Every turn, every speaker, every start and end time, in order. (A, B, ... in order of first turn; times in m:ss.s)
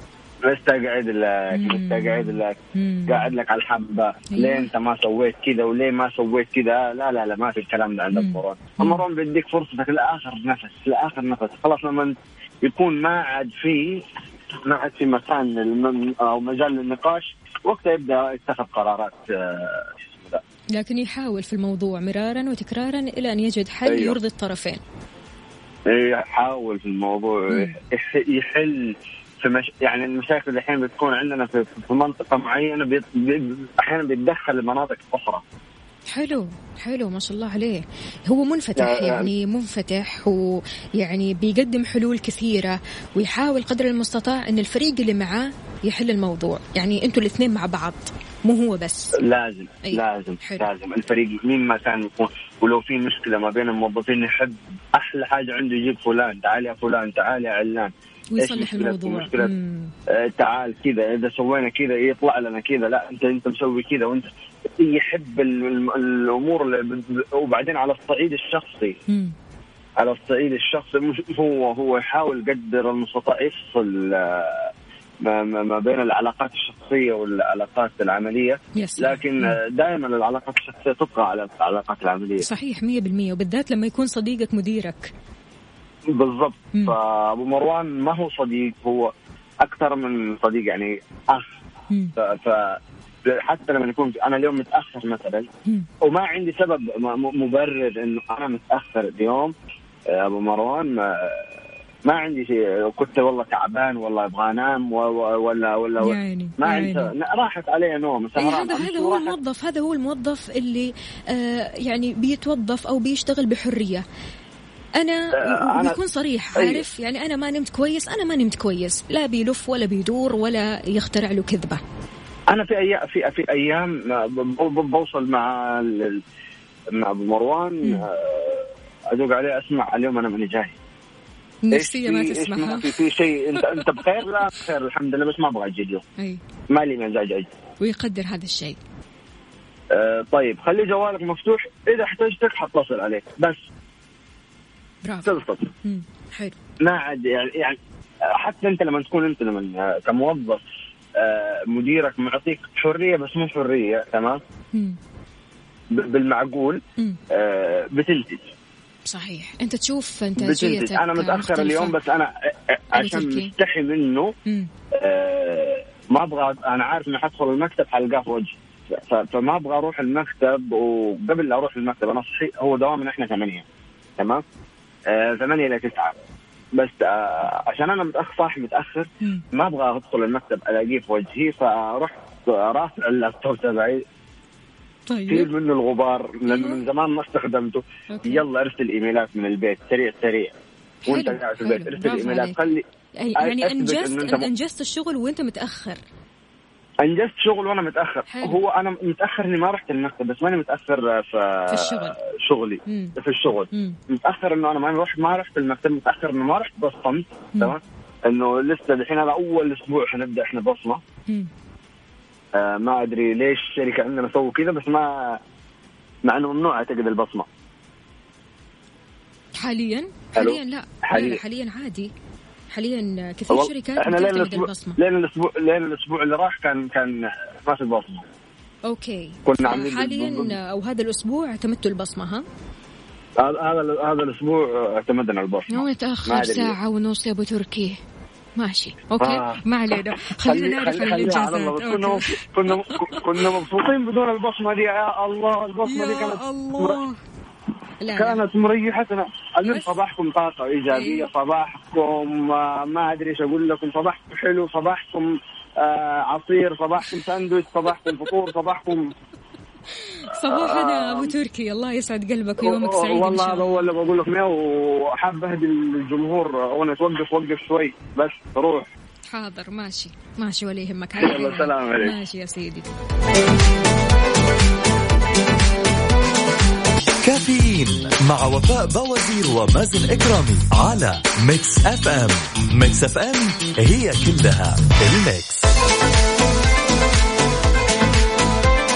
0:00.4-0:14.0 A
0:01.5-0:03.3 B
0:04.3-0:04.7 B
0:08.1-0:09.0 B
0:14.6-0:20.4 A
0:20.8-0:24.8 B
0:23.8-0:24.2 A
0:25.9-0:35.4 A
0:27.5-0:27.8 B
0:36.1-0:49.2 B
0:38.8-0:39.3 A
0:49.2-0:59.5 A
0:49.8-0:50.7 B
0:58.3-0:59.9 B
1:00.1-1:09.0 A
1:10.0-1:14.7 A
1:15.2-1:22.4 A
1:18.8-1:19.6 B
1:22.4-1:25.1 B
1:26.1-1:29.1 A
1:29.6-1:31.4 A
1:32.2-1:32.8 A
1:33.3-1:35.5 A
1:36.0-1:39.5 A
1:40.1-1:41.5 A
1:42.0-1:49.3 A
1:46.0-1:47.1 B
1:48.4-1:54.0 B
1:55.0-2:01.8 B
1:55.4-1:56.0 A
1:56.6-1:56.8 A
2:02.5-2:06.2 A
2:06.9-2:10.7 A
2:11.6-2:13.0 B
2:11.7-2:16.0 A
2:13.6-2:14.0 B
2:16.7-2:17.5 A
2:17.8-2:18.8 B
2:19.9-2:23.6 A
2:25.0-2:26.5 B
2:25.2-2:25.7 A
2:26.8-2:27.8 A
2:28.3-2:30.6 A
2:31.2-2:34.4 A
2:35.9-2:36.8 A
2:37.3-2:38.5 A
2:39.1-2:42.0 B
2:40.4-2:44.3 A
2:42.9-2:43.5 B
2:45.0-2:53.6 A
2:54.2-2:54.4 A
2:55.1-2:56.1 A
2:56.7-3:04.0 A
3:05.1-3:05.5 B
3:05.3-3:10.5 A
3:06.4-3:06.8 B
3:08.1-3:08.4 B
3:11.0-3:16.0 B
3:11.1-3:12.8 A
3:13.4-3:14.5 A
3:17.0-3:31.0 A
3:18.3-3:18.6 B
3:21.7-3:22.2 B
3:22.8-3:23.2 B
3:23.7-3:24.0 B
3:32.6-3:35.4 A
3:36.2-3:37.5 A
3:39.6-3:42.1 B
3:40.4-3:41.4 A
3:42.7-3:45.0 B
3:43.5-3:48.2 A
3:48.9-3:52.4 B
3:49.4-3:50.5 A
3:53.4-3:56.7 A
3:55.7-3:58.0 B
3:58.6-4:03.5 B
3:59.2-3:59.6 A
4:00.4-4:07.0 A
4:05.8-4:07.2 B
4:08.0-4:08.4 B
4:08.1-4:15.3 A
4:09.6-4:09.9 B
4:10.9-4:11.3 B
4:15.8-4:19.1 A
4:20.0-4:23.9 B
4:20.4-4:21.3 A
4:22.6-4:28.9 A
4:29.3-4:32.9 B
4:31.2-4:32.2 A
4:37.2-4:45.6 C